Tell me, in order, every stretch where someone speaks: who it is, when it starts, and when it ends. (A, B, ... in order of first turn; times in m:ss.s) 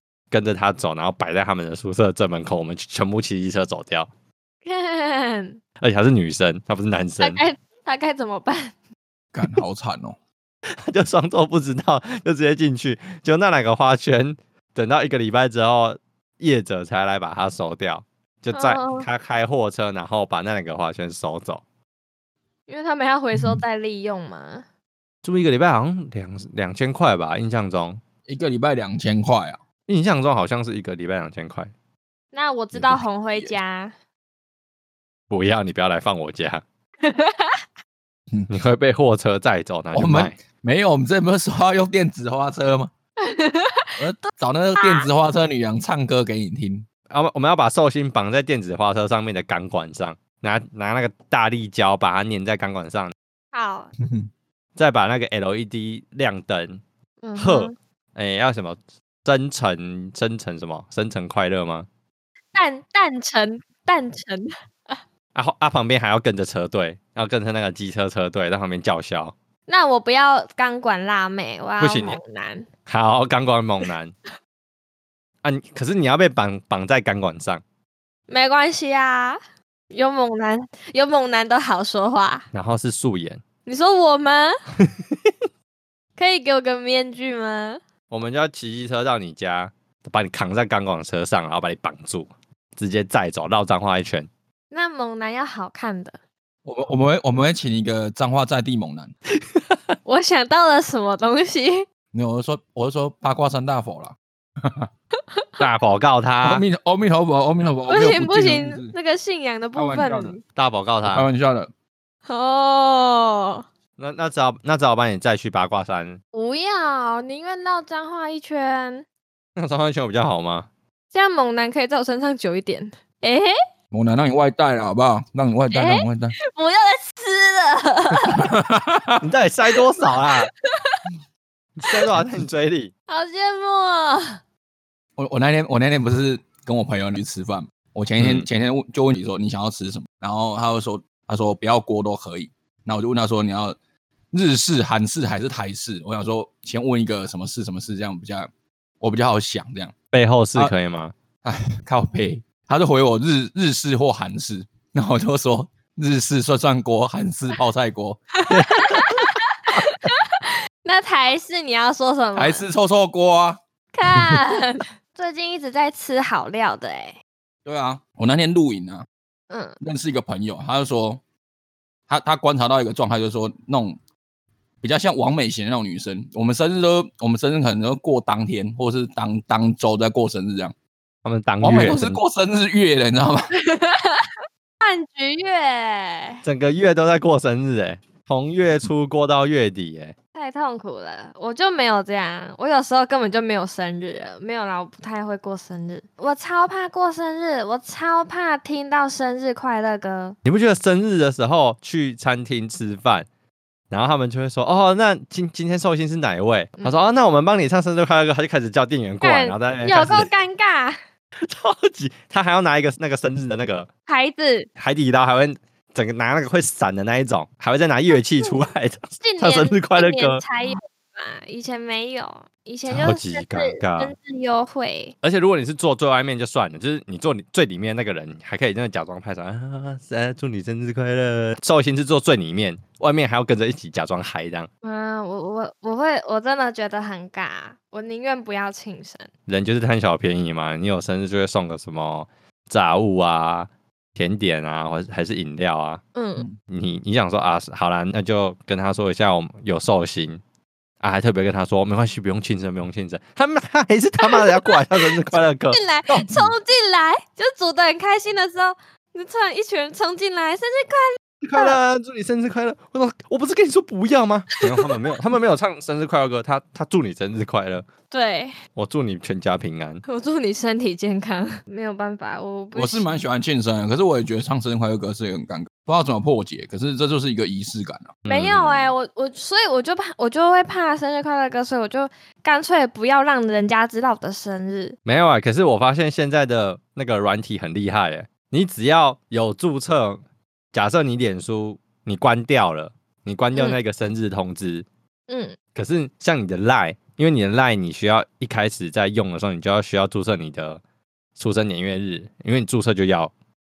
0:00.3-0:04.1 A
0:04.6-0:05.6 B
0:05.8-0:07.4 A
0:07.2-0:08.7 B
0:09.3-0:10.2 C
0:10.8-0:21.6 A
0:18.5-0:19.1 B
0:22.7-0:24.6 B
0:25.2-0:28.0 A
0:28.3-0:29.6 C
0:29.9-0:31.7 A
0:32.3-0:33.9 B
0:32.7-0:33.6 C
0:35.3-0:36.6 A
0:37.0-0:37.6 B
0:38.5-0:40.4 A
0:39.9-0:42.9 C
0:43.2-0:45.1 B
0:44.0-0:46.9 C
0:47.1-0:53.1 A
0:53.5-0:53.9 B
0:54.8-0:56.8 A
0:57.2-0:57.7 B
0:57.4-1:01.9 A
1:02.5-1:05.0 B
1:05.3-1:09.3 A
1:09.7-1:12.7 B
1:11.8-1:12.2 A
1:12.9-1:14.1 A
1:15.4-1:17.6 A
1:18.3-1:19.4 B
1:19.9-1:22.5 B
1:22.5-1:23.4 A
1:23.6-1:24.5 B
1:24.8-1:25.1 A
1:26.2-1:27.8 B
1:28.1-1:34.3 A
1:34.7-1:36.2 B
1:36.6-1:39.1 C
1:40.0-1:41.8 B
1:42.1-1:44.9 C
1:45.2-1:45.6 B
1:45.6-1:46.6 A
1:46.4-1:48.9 C
1:47.9-1:50.4 B
1:49.7-1:50.4 C
1:50.6-1:51.3 A
1:51.0-1:51.7 C
1:52.2-1:53.6 B
1:54.0-1:56.2 A
1:56.3-1:59.0 B
1:59.6-2:00.7 A
2:01.1-2:03.5 B
2:03.9-2:06.3 C
2:05.7-2:08.5 B
2:08.2-2:09.2 C
2:09.2-2:10.5 A
2:10.2-2:11.0 B
2:11.8-2:12.9 A
2:13.1-2:14.4 B
2:15.2-2:23.8 C
2:18.2-2:18.5 A
2:24.3-2:28.5 C
2:29.0-2:29.9 C
2:30.1-2:31.1 A
2:31.4-2:38.2 C
2:38.3-2:42.6 B
2:38.5-2:39.9 A
2:42.4-2:43.6 C
2:43.9-2:47.2 B
2:47.6-2:49.0 C
2:49.5-2:49.8 B
2:49.8-2:51.2 C
2:52.1-2:54.0 C
2:54.8-3:00.7 C
3:01.2-3:02.2 A
3:01.6-3:03.5 C
3:03.6-3:06.4 B
3:06.4-3:10.1 A
3:10.3-3:20.4 B
3:20.4-3:23.3 A
3:23.9-3:30.3 A
3:29.2-3:31.0 B
3:31.4-3:33.9 A
3:34.1-3:34.7 B
3:34.8-3:40.8 A
3:38.1-3:38.6 B
3:39.2-3:45.1 B
3:42.9-3:44.1 A
3:45.2-3:54.7 A
3:54.8-3:59.3 B
3:59.5-4:06.0 A
4:06.1-4:06.5 B
4:06.6-4:10.4 A
4:11.0-4:16.5 A
4:14.2-4:15.2 B
4:15.7-4:21.8 B
4:21.4-4:27.8 A
4:24.7-4:25.1 B
4:28.1-4:28.6 B
4:28.8-4:30.0 A
4:30.1-4:33.2 B
4:32.7-4:38.2 C
4:38.2-4:39.0 A
4:38.3-4:45.0 B
4:45.0-4:50.2 A
4:50.7-4:54.8 A
4:55.3-4:55.6 B
4:55.7-5:00.8 A
5:01.4-5:03.3 A